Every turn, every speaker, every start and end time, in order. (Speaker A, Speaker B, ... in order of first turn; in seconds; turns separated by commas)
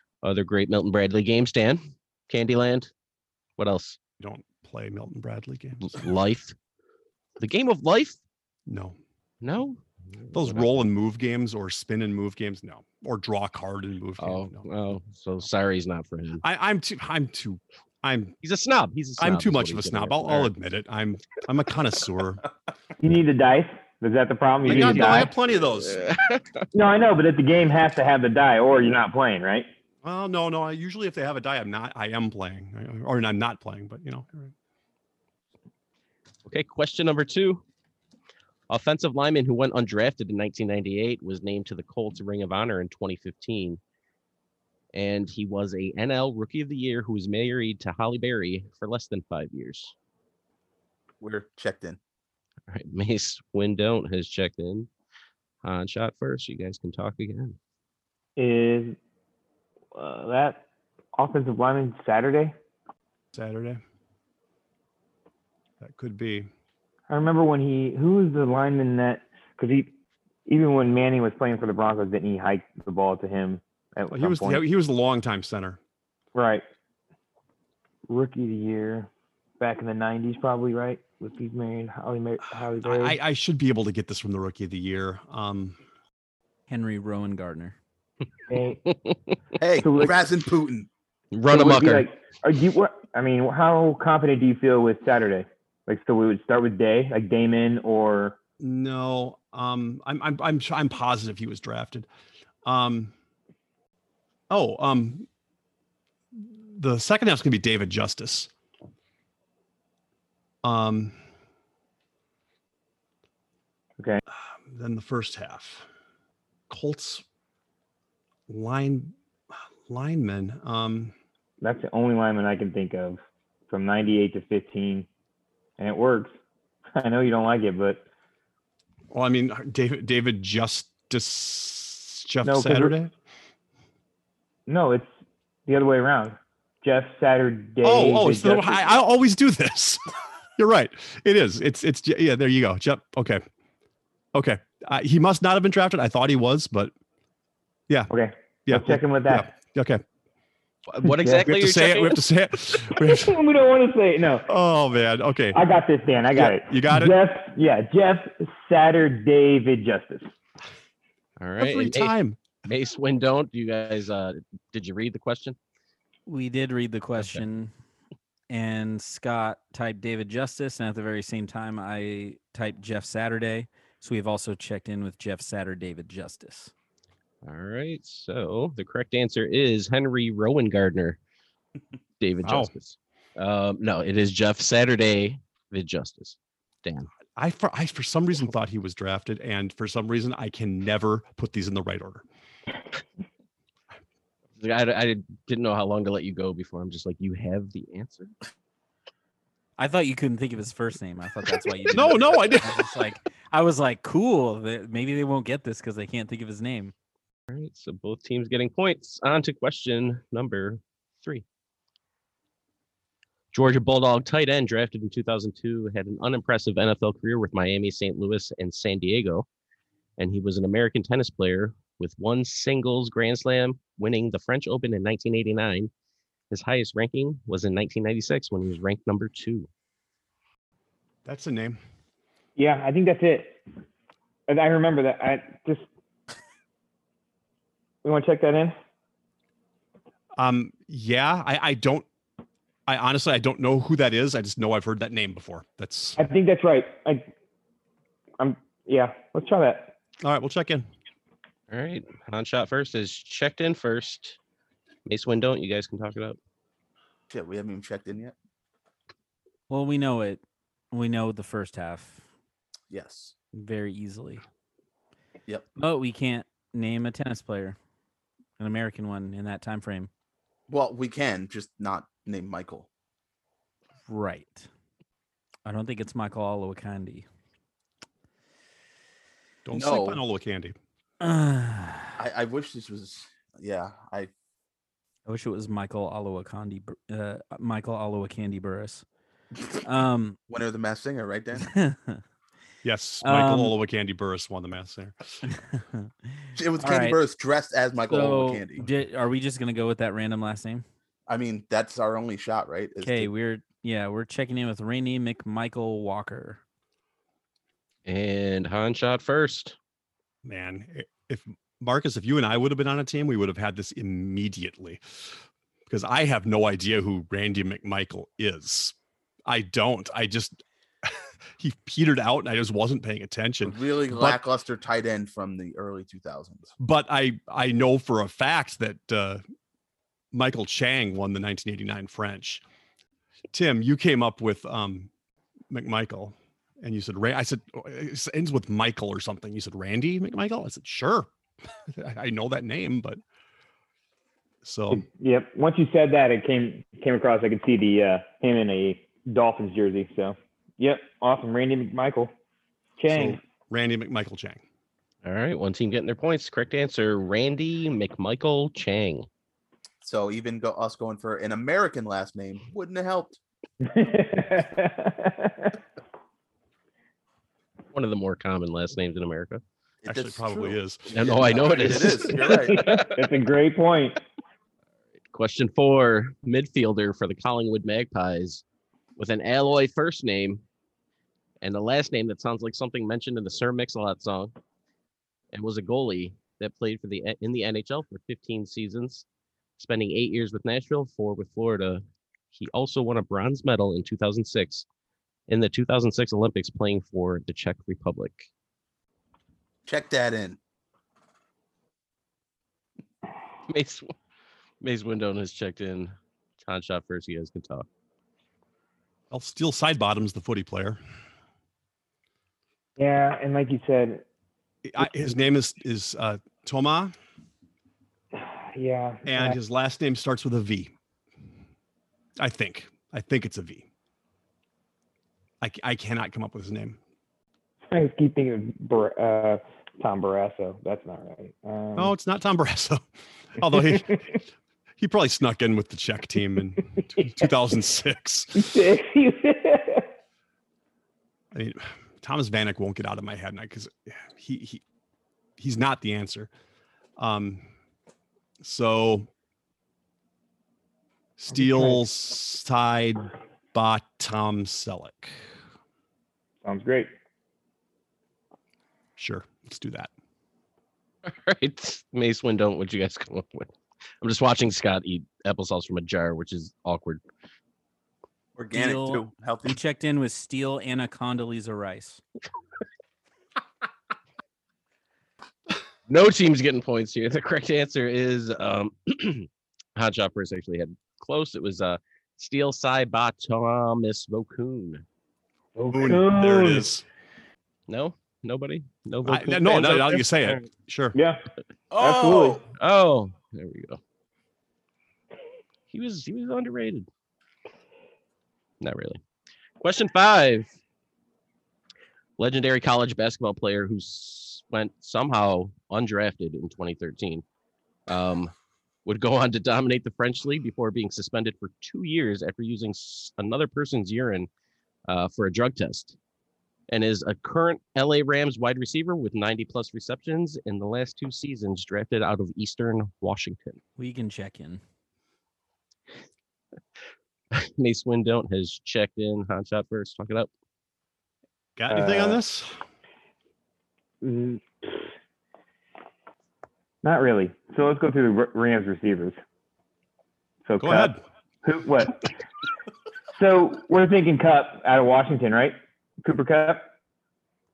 Speaker A: 0.2-2.9, Speaker A: 3.6-4.0, Speaker B: 4.2-6.0, Speaker A: 5.8-6.5, Speaker A: 7.4-8.2, Speaker B: 8.7-9.0, Speaker A: 9.4-10.8, Speaker B: 10.3-14.6, Speaker A: 14.2-16.4, Speaker B: 16.4-18.4, Speaker A: 18.4-20.5, Speaker B: 19.2-22.4, Speaker C: 23.0-25.3, Speaker B: 24.6-26.0, Speaker A: 24.7-26.6, Speaker C: 26.7-29.7, Speaker B: 30.0-34.5, Speaker A: 36.5-37.6, Speaker A: 38.7-43.8, Speaker A: 44.9-49.9, Speaker D: 51.2-52.0, Speaker A: 52.7-54.9, Speaker A: 55.6-57.6, Speaker C: 58.4-59.0, Speaker C: 59.9-60.6, Speaker C: 61.2-62.5, Speaker B: 63.3-63.8, Speaker B: 65.8-66.5, Speaker C: 67.1-69.9, Speaker C: 70.5-74.6, Speaker B: 74.1-75.8, Speaker C: 76.3-76.6, Speaker C: 78.1-79.1, Speaker C: 79.6-83.2, Speaker B: 82.8-85.8, Speaker E: 86.7-87.8, Speaker C: 88.5-88.8, Speaker A: 88.9-89.2, Speaker D: 89.6-90.9, Speaker C: 89.8-90.2, Speaker A: 91.3-92.1, Speaker C: 91.5-98.4, Speaker B: 98.6-102.1, Speaker B: 102.7-103.1, Speaker B: 104.5-105.3, Speaker B: 106.4-108.5, Speaker B: 110.6-111.2, Speaker B: 114.3-115.9, Speaker B: 116.7-117.2, Speaker B: 118.5-119.1, Speaker B: 119.9-121.1, Speaker C: 121.6-125.1, Speaker C: 125.8-126.3, Speaker C: 127.0-128.0, Speaker B: 129.1-133.1, Speaker C: 132.4-133.0, Speaker C: 134.7-135.1, Speaker C: 135.7-138.9, Speaker B: 137.8-140.0, Speaker B: 140.6-143.4, Speaker B: 144.3-146.9, Speaker C: 148.1-149.5, Speaker B: 148.7-150.0, Speaker A: 150.9-152.2, Speaker C: 151.2-151.5, Speaker B: 151.5-153.3, Speaker C: 152.9-154.5, Speaker B: 154.5-155.6, Speaker C: 155.5-160.3, Speaker B: 156.3-157.1, Speaker A: 161.4-165.6, Speaker B: 161.6-162.4, Speaker E: 166.3-167.7, Speaker E: 168.5-176.7, Speaker A: 177.4-181.2, Speaker A: 182.2-187.1, Speaker B: 182.4-182.7, Speaker B: 187.4-192.2, Speaker A: 194.6-198.3, Speaker E: 199.8-206.9, Speaker B: 201.9-202.9, Speaker A: 207.5-211.4, Speaker A: 213.5-219.5, Speaker A: 220.2-225.9, Speaker A: 226.5-229.7, Speaker B: 231.3-231.8, Speaker C: 232.6-233.6, Speaker C: 234.5-235.9, Speaker C: 238.0-238.8, Speaker B: 240.4-242.1, Speaker B: 242.9-246.2, Speaker C: 246.2-247.3, Speaker C: 248.4-249.9, Speaker B: 250.2-250.9, Speaker A: 251.7-254.4, Speaker A: 255.1-256.4, Speaker D: 257.3-258.4, Speaker E: 259.7-260.4, Speaker E: 260.9-262.2, Speaker D: 262.9-263.4, Speaker E: 263.5-264.4, Speaker E: 265.8-267.8, Speaker E: 268.6-270.1, Speaker D: 270.7-272.9, Speaker E: 274.1-274.7, Speaker E: 275.7-277.3, Speaker B: 279.6-280.8, Speaker D: 279.8-280.2, Speaker E: 281.2-282.1, Speaker D: 282.2-284.3, Speaker E: 285.3-289.0, Speaker E: 289.8-290.4, Speaker D: 290.5-291.7, Speaker E: 291.7-292.2, Speaker B: 292.8-295.1, Speaker E: 293.2-293.8, Speaker D: 296.6-298.9, Speaker E: 296.8-297.2, Speaker E: 298.1-300.9, Speaker D: 301.3-303.3, Speaker E: 303.0-306.6, Speaker A: 308.1-309.8, Speaker B: 310.4-315.0, Speaker B: 315.9-318.9, Speaker B: 319.5-324.4, Speaker D: 323.6-326.7, Speaker B: 326.8-329.4, Speaker B: 330.3-332.6, Speaker B: 333.5-335.1, Speaker B: 335.7-341.3, Speaker B: 341.9-343.2, Speaker B: 344.6-345.1, Speaker C: 344.9-352.3, Speaker C: 353.0-353.4, Speaker B: 353.1-354.6, Speaker A: 355.2-359.3, Speaker D: 360.0-363.4, Speaker C: 363.8-365.8, Speaker A: 367.9-369.6, Speaker D: 370.1-373.1, Speaker B: 370.1-371.1, Speaker A: 371.1-373.2, Speaker C: 372.7-374.2, Speaker A: 375.3-378.6, Speaker A: 379.2-380.6, Speaker A: 381.6-384.5, Speaker A: 385.5-389.2, Speaker A: 389.8-394.9, Speaker A: 395.5-398.5, Speaker D: 399.9-400.6, Speaker A: 403.7-404.1, Speaker A: 404.8-407.9, Speaker B: 409.3-411.0, Speaker C: 413.0-414.2, Speaker B: 414.9-417.1, Speaker C: 418.4-419.6, Speaker B: 419.2-420.9, Speaker B: 422.4-423.9, Speaker B: 425.6-427.0, Speaker C: 427.9-432.1, Speaker B: 431.9-433.0, Speaker B: 433.6-434.2, Speaker B: 435.0-438.8, Speaker C: 438.6-440.1, Speaker B: 441.5-444.8, Speaker B: 445.6-446.5, Speaker B: 447.2-447.6, Speaker B: 448.6-449.3, Speaker B: 451.4-455.4, Speaker C: 451.6-452.0, Speaker C: 456.6-457.1, Speaker B: 459.2-460.1, Speaker A: 461.2-463.7, Speaker A: 464.2-467.2, Speaker D: 468.6-469.8, Speaker E: 468.7-472.2, Speaker A: 476.1-485.0, Speaker C: 485.8-486.9, Speaker B: 485.9-487.0, Speaker A: 487.9-490.7, Speaker B: 489.2-491.2, Speaker C: 491.1-491.4, Speaker D: 491.9-492.6, Speaker C: 492.0-492.6, Speaker A: 492.8-494.0, Speaker A: 495.9-497.1, Speaker A: 498.8-499.2, Speaker A: 499.8-500.7, Speaker A: 502.4-507.4, Speaker A: 508.1-508.5, Speaker A: 509.1-514.5, Speaker A: 515.1-516.2, Speaker A: 516.9-523.8, Speaker E: 524.0-524.8, Speaker A: 527.5-530.5, Speaker B: 531.8-532.8, Speaker C: 531.9-532.4, Speaker C: 534.2-535.0, Speaker C: 537.0-539.4, Speaker C: 540.7-542.3, Speaker B: 540.8-541.2, Speaker C: 543.3-546.9